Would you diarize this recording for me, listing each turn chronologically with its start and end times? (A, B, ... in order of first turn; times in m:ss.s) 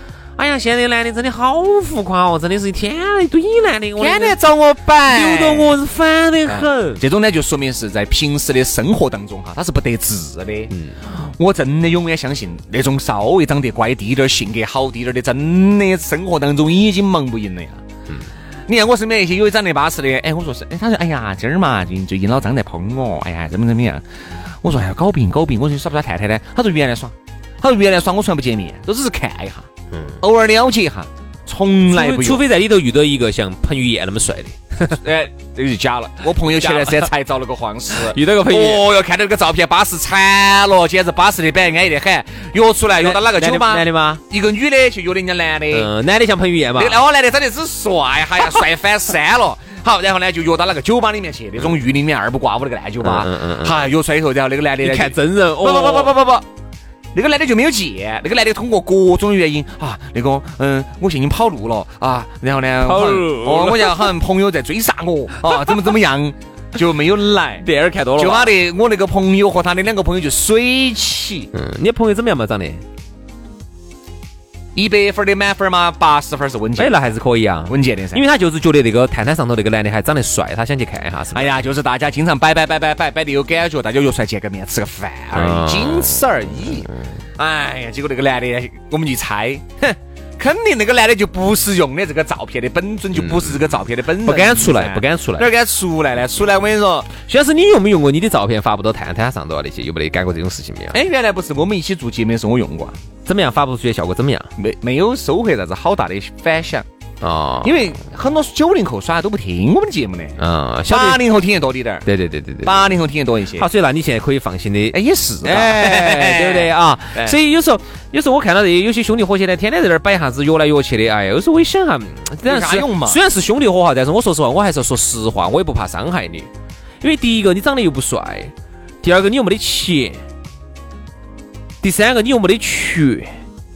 0:00.4-0:04.4 A
0:04.0-0:05.8 B
0:05.1-0:07.0 A
0:06.5-0:17.8 B
0:10.7-0:11.0 A
0:18.7-0:24.0 B
0:24.6-0:29.7 B
0:29.9-0:30.2 A
0:30.2-0:32.4 B
0:31.9-0:35.0 A
0:35.0-0:45.9 B
0:36.6-0:37.1 A
0:37.9-0:38.9 A
0:43.0-0:44.2 A
0:45.7-0:47.0 A
0:46.8-0:56.5 B
0:53.0-0:53.8 A
0:54.8-0:56.2 A
0:57.1-1:07.6 B
1:02.8-1:04.1 A
1:07.6-1:08.5 A
1:08.2-1:11.5 B
1:11.5-1:12.8 A
1:14.8-1:16.9 B
1:16.8-1:21.6 A
1:17.7-1:18.2 B
1:21.3-1:37.1 B
1:25.3-1:26.2 A
1:33.2-1:35.5 A
1:37.2-1:41.0 A
1:40.9-1:43.0 B
1:43.3-1:44.5 A
1:44.6-1:46.9 B
1:47.2-1:47.8 A
1:47.6-1:52.1 B
1:50.4-1:51.2 A
1:52.0-1:52.8 A
1:52.6-1:53.7 B
1:53.6-2:06.5 A
1:54.9-1:57.4 B
2:02.4-2:03.2 B
2:07.0-2:08.5 A
2:09.0-2:10.2 A
2:11.8-2:13.3 A